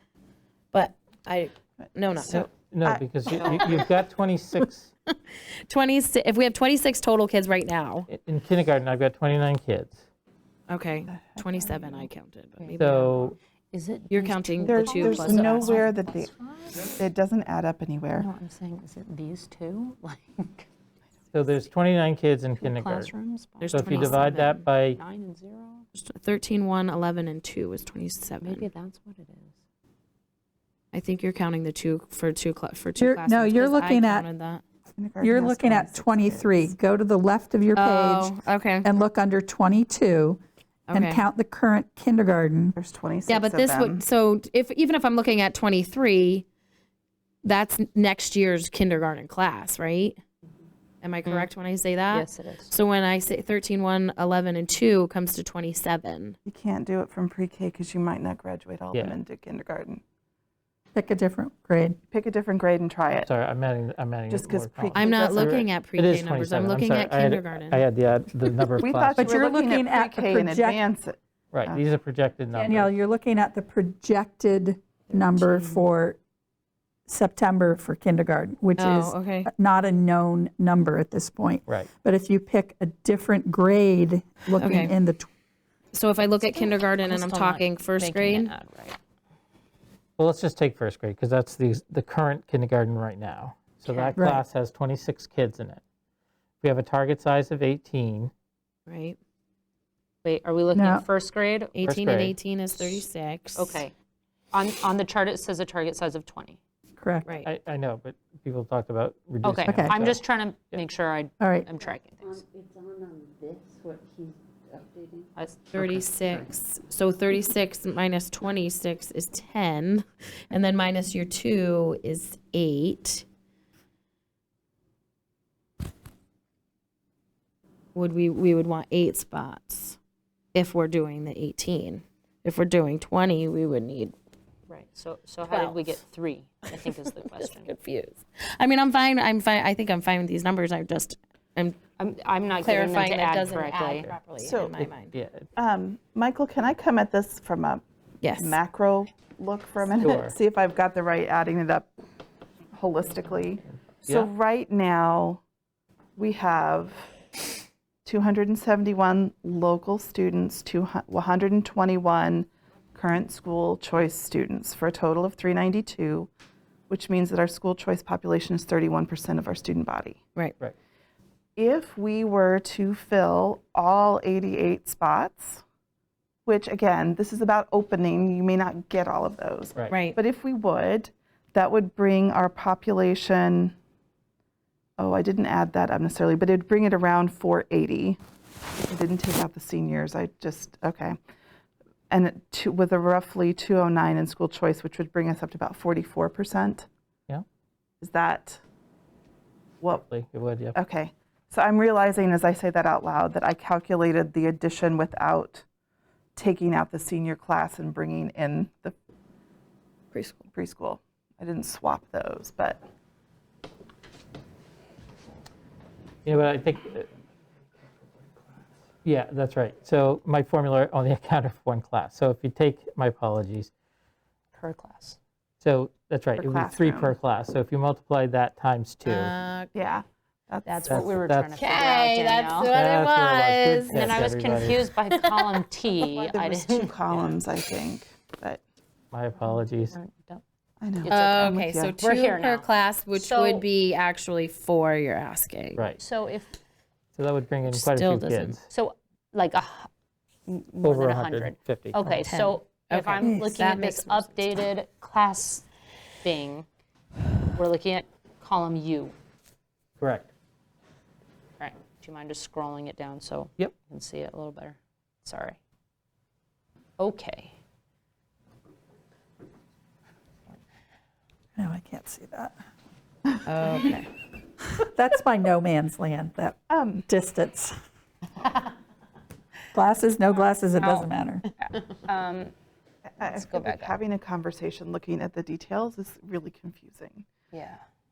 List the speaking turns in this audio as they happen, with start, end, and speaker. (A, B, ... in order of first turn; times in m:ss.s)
0:00.7-0:02.5 A
0:01.8-0:03.8 B
0:02.5-0:04.9 C
0:03.3-0:03.8 A
0:04.6-0:08.1 A
0:08.1-0:10.0 C
0:10.7-0:13.4 A
0:11.1-0:12.1 B
0:12.8-0:13.4 C
0:13.7-0:17.0 D
0:14.1-0:15.9 A
0:14.7-0:18.3 B
0:18.2-0:20.7 D
0:21.3-0:23.1 C
0:22.6-0:25.9 D
0:23.6-0:24.6 A
0:23.7-0:25.0 C
0:26.0-0:28.7 A
0:28.4-0:29.5 D
0:30.9-0:34.6 A
0:33.0-0:34.3 E
0:35.0-0:36.7 B
0:35.2-0:40.4 E
0:37.8-0:38.9 A
0:40.9-0:41.2 A
0:40.9-0:42.8 E
0:42.8-0:44.0 B
0:43.3-0:46.5 A
0:47.4-0:50.2 A
0:51.0-0:56.4 A
0:51.2-0:51.5 D
0:52.1-0:52.7 D
0:56.5-1:00.0 B
0:58.9-0:59.2 C
1:00.9-1:02.0 E
1:02.1-1:03.3 B
1:03.2-1:09.3 C
1:04.3-1:05.6 B
1:04.9-1:07.8 A
1:08.8-1:11.8 B
1:09.2-1:10.8 E
1:11.5-1:12.9 C
1:12.5-1:16.2 E
1:15.2-1:15.8 D
1:17.1-1:25.3 E
1:18.8-1:19.5 A
1:24.6-1:24.9 A
1:25.9-1:28.5 A
1:26.4-1:29.0 D
1:30.2-1:35.8 C
1:33.9-1:34.2 D
1:34.2-1:34.4 E
1:36.6-1:38.3 C
1:38.9-1:39.2 A
1:40.2-1:41.8 D
1:40.7-1:41.1 E
1:41.8-1:43.8 A
1:41.8-1:42.4 C
1:43.6-1:43.9 D
1:44.5-1:46.6 D
1:47.0-1:47.3 E
1:47.4-1:50.2 C
1:49.4-1:52.5 D
1:49.7-1:50.0 E
1:51.4-1:51.7 E
1:52.5-1:55.3 F
1:55.4-1:56.5 D
1:55.7-2:03.3 A
2:08.0-2:10.0 A
2:10.5-2:14.2 A
2:14.7-2:17.7 D
2:15.5-2:16.0 A
2:16.7-2:21.8 A
2:22.0-2:24.1 D
2:22.6-2:25.2 A
2:24.4-2:24.9 B
2:25.0-2:25.5 C
2:25.6-2:27.8 B
2:28.2-2:28.6 A
2:28.4-2:31.9 B
2:30.0-2:30.4 C
2:32.7-2:35.4 B
2:33.7-2:34.3 C
2:36.2-2:37.1 B
2:38.0-2:46.3 B
2:46.9-2:50.2 B
2:51.6-2:55.6 B
2:56.5-3:03.8 B
2:59.8-3:00.0 C
2:59.9-3:00.2 A
3:05.0-3:08.2 B
3:08.9-3:11.2 B
3:12.1-3:16.9 B
3:18.0-3:18.6 B
3:20.0-3:20.8 C
3:20.8-3:25.6 B
3:26.4-3:29.0 B
3:30.5-3:32.8 B
3:36.2-3:37.1 C
3:39.0-3:43.7 C
3:44.6-3:45.2 D
3:45.6-3:49.3 C
3:46.4-3:47.2 B
3:49.1-3:49.9 A
3:49.7-3:51.2 B
3:50.7-3:52.7 D
3:50.9-3:51.6 C
3:51.6-3:54.2 A
3:52.7-3:54.8 C
3:53.9-3:57.4 D
3:55.2-3:55.6 A
3:56.3-3:58.6 B
3:59.1-4:00.0 C
3:59.8-4:00.4 D
4:00.8-4:02.0 B
4:01.0-4:03.7 D
4:01.1-4:05.8 A
4:06.0-4:06.6 D
4:07.2-4:08.7 C
4:07.7-4:08.6 A
4:08.7-4:09.9 D
4:10.5-4:15.7 D
4:10.8-4:12.0 C
4:12.3-4:14.5 A
4:16.2-4:16.7 D
4:17.6-4:19.2 D
4:20.0-4:20.3 C
4:21.6-4:25.6 D
4:27.0-4:27.5 D
4:31.6-4:32.5 E
4:33.5-4:34.1 A
4:34.7-4:37.8 E
4:36.7-4:37.1 B
4:39.7-4:41.5 E
4:40.8-4:42.5 D
4:43.1-4:47.3 B
4:43.2-4:44.0 D
4:47.5-4:47.8 D